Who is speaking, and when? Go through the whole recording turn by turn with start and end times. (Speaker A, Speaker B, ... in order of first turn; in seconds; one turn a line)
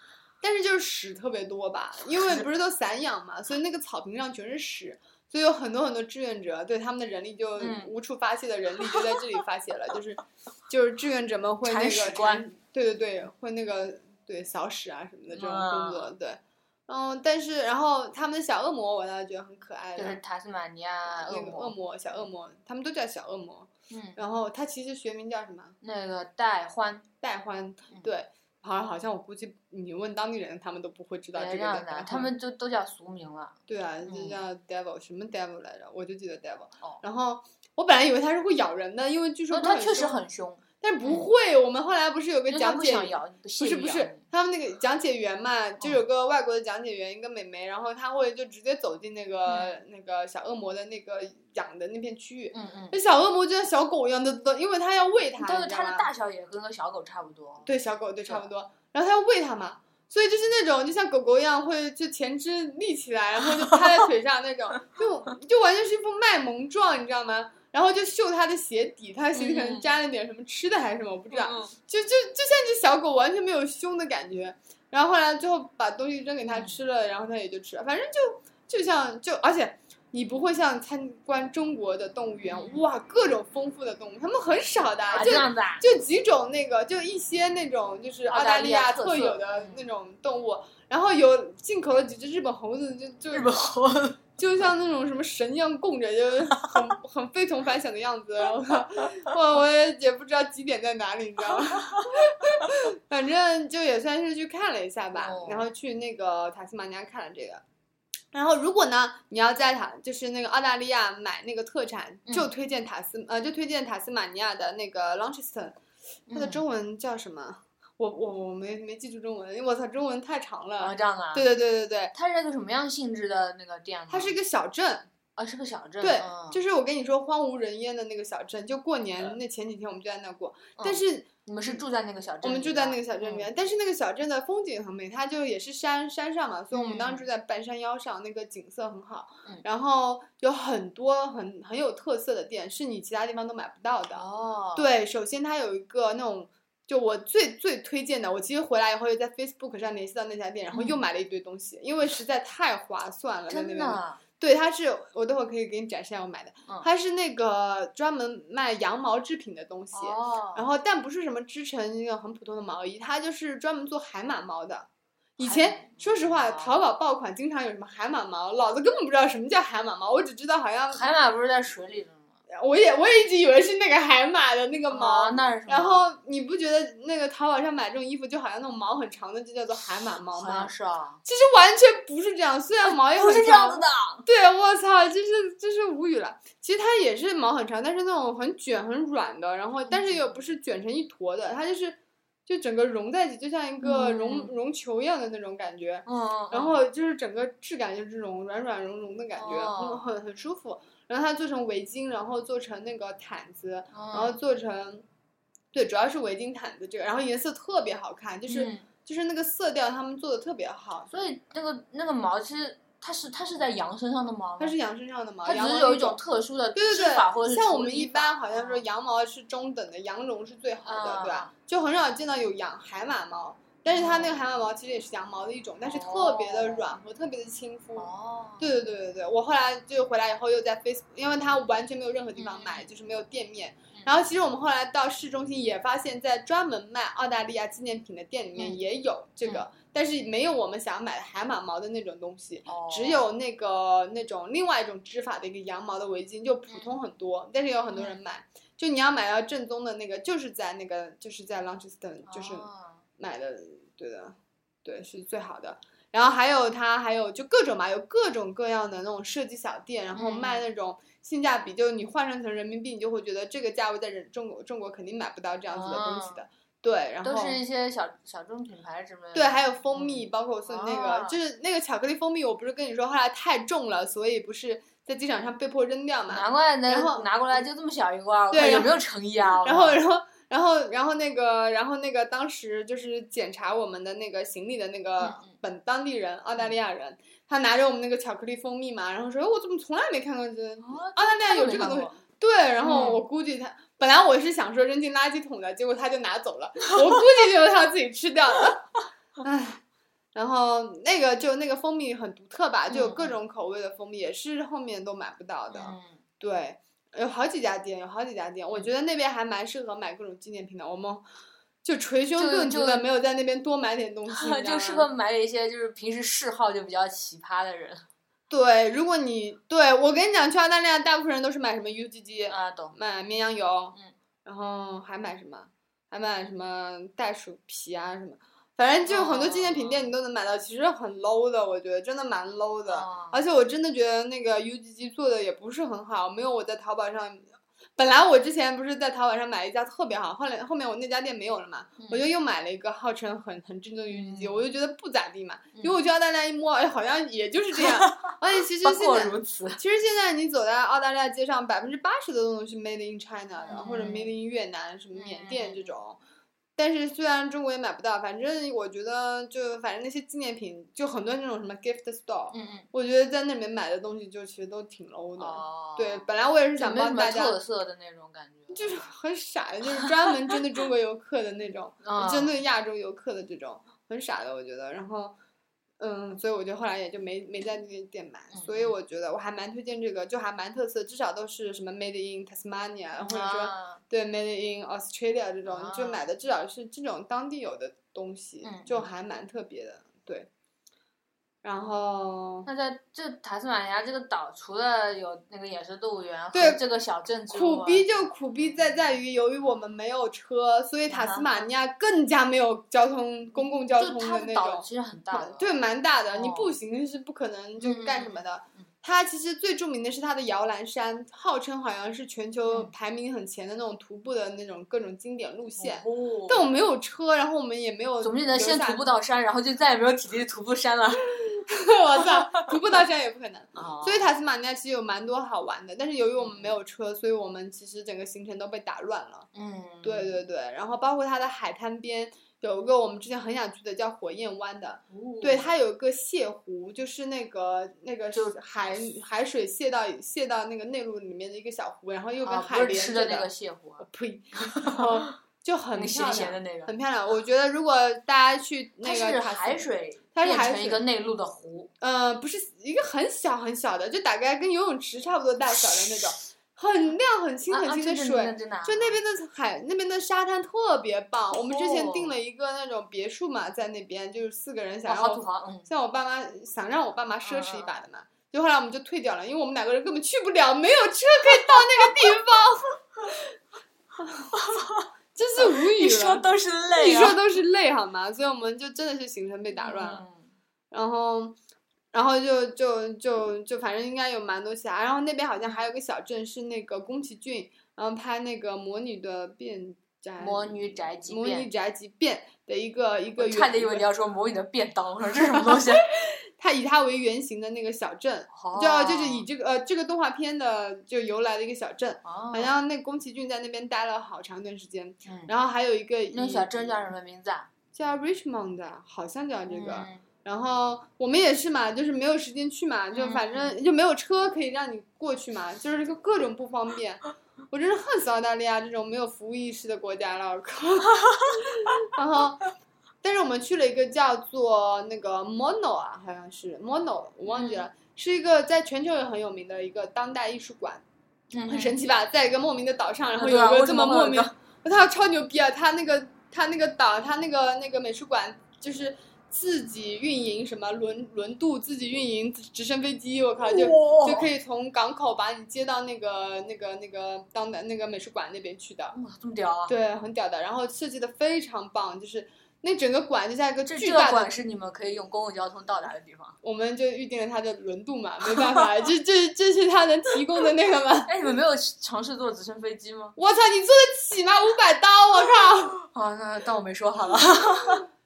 Speaker A: 0.4-20.2
Speaker B: 2.1-2.4
Speaker B: 7.6-7.9
Speaker B: 11.6-12.4
Speaker B: 15.3-16.1
Speaker B: 19.9-21.7
Speaker A: 21.1-25.8
Speaker B: 23.9-24.2
Speaker B: 25.8-27.1
Speaker A: 27.2-32.3
Speaker B: 31.3-34.4
Speaker A: 33.7-40.2
Speaker B: 39.5-41.3
Speaker A: 40.8-56.1
Speaker B: 42.5-44.2
Speaker B: 49.5-49.8
Speaker B: 52.5-53.0
Speaker B: 55.4-57.7
Speaker A: 57.6-93.5
Speaker B: 69.3-69.9
Speaker B: 71.3-71.7
Speaker B: 76.5-76.8
Speaker B: 82.5-82.8
Speaker B: 85.1-85.8
Speaker B: 88.3-89.8
Speaker B: 93.3-94.2
Speaker A: 94.4-107.6
Speaker B: 101.5-102.1
Speaker B: 105.1-105.7
Speaker A: 108.3-115.8
Speaker B: 116.3-116.6
Speaker A: 116.3-122.1
Speaker B: 120.8-121.5
Speaker B: 122.1-124.4
Speaker A: 124.1-125.1
Speaker B: 125.4-126.6
Speaker A: 126.0-131.8
Speaker B: 130.8-133.5
Speaker A: 132.4-171.1
Speaker B: 136.7-137.2
Speaker B: 144.1-144.9
Speaker B: 150.7-151.0
Speaker B: 153.5-154.2
Speaker B: 159.9-160.6
Speaker B: 165.4-166.8
Speaker B: 170.9-172.3
Speaker A: 172.5-180.7
Speaker B: 174.9-176.0
Speaker B: 180.3-181.2
Speaker A: 181.2-205.0
Speaker B: 182.8-184.2
Speaker B: 189.9-190.3
Speaker B: 193.8-194.5
Speaker B: 196.1-196.8
Speaker B: 199.3-200.1
Speaker B: 203.9-204.3
Speaker A: 205.7-211.1
Speaker B: 208.5-208.8
Speaker B: 211.1-214.8
Speaker A: 214.6-216.2
Speaker B: 215.4-218.8
Speaker A: 216.7-228.1
Speaker B: 220.8-221.5
Speaker B: 223.9-224.4
Speaker B: 225.8-226.8
Speaker B: 228.0-228.7
Speaker A: 228.6-267.6
Speaker B: 232.4-232.8
Speaker B: 242.7-243.2
Speaker B: 252.3-253.0
Speaker B: 260.1-260.6
Speaker B: 265.7-266.4
Speaker B: 267.2-271.4
Speaker A: 269.3-277.6
Speaker B: 276.3-280.0
Speaker A: 278.5-279.0
Speaker A: 279.6-299.8
Speaker B: 285.2-285.5
Speaker B: 290.8-292.2
Speaker B: 292.8-293.2
Speaker A: 300.3-311.2
Speaker B: 302.9-303.4
Speaker B: 305.7-306.2
Speaker A: 311.8-315.1
Speaker B: 312.4-313.1
Speaker B: 314.3-318.1
Speaker A: 318.5-356.2
Speaker B: 322.5-322.9
Speaker B: 329.1-330.1
Speaker B: 332.9-333.4
Speaker B: 342.0-342.3
Speaker B: 344.1-344.6
Speaker B: 345.7-346.0
Speaker B: 347.8-349.8
Speaker B: 353.6-354.3
Speaker B: 355.1-355.9
Speaker A: 356.8-367.6
Speaker B: 362.5-362.9
Speaker B: 365.4-369.0
Speaker A: 368.7-375.3
Speaker B: 370.0-370.5
Speaker B: 372.0-372.6
Speaker A: 376.0-390.5
Speaker B: 378.5-378.9
Speaker B: 383.2-384.0
Speaker B: 385.6-386.2
Speaker B: 388.6-389.1
Speaker A: 391.6-392.7
Speaker B: 392.6-398.1
Speaker A: 396.5-396.8
Speaker A: 397.5-419.1
Speaker B: 398.6-398.9
Speaker B: 401.1-401.7
Speaker B: 403.6-405.8
Speaker B: 406.3-406.8
Speaker B: 407.8-408.8
Speaker B: 415.8-416.6
Speaker B: 418.2-421.2
Speaker A: 421.4-429.5
Speaker B: 423.7-424.3
Speaker B: 426.4-426.8
Speaker B: 429.5-430.4
Speaker A: 430.0-443.5
Speaker B: 435.1-435.7
Speaker B: 438.3-439.1
Speaker B: 442.4-444.1
Speaker A: 444.0-451.0
Speaker B: 444.8-445.1
Speaker B: 445.9-446.9
Speaker B: 449.0-451.9
Speaker A: 452.0-473.5
Speaker B: 457.7-459.2
Speaker B: 461.7-462.3
Speaker B: 465.1-465.9
Speaker B: 467.4-467.9
Speaker B: 471.7-472.3
Speaker A: 474.2-474.5
Speaker B: 474.6-475.1
Speaker A: 475.3-480.2
Speaker B: 475.6-477.4
Speaker B: 479.7-480.5
Speaker A: 480.9-481.6
Speaker A: 482.1-494.0
Speaker B: 490.4-491.7
Speaker B: 493.4-496.0
Speaker A: 495.6-495.8
Speaker A: 496.6-506.9
Speaker B: 498.5-499.5
Speaker B: 502.2-502.8
Speaker B: 505.2-505.5
Speaker B: 506.3-507.7
Speaker A: 507.9-522.7
Speaker B: 509.7-510.2
Speaker B: 513.1-513.8
Speaker A: 523.2-531.0
Speaker B: 527.5-527.9
Speaker B: 531.5-532.0
Speaker A: 531.6-549.2
Speaker B: 533.4-534.5
Speaker B: 543.6-544.5
Speaker B: 549.1-549.9
Speaker A: 549.9-554.5
Speaker B: 553.8-556.5
Speaker A: 556.6-561.3
Speaker B: 561.2-563.4
Speaker A: 563.4-566.0
Speaker B: 566.0-568.0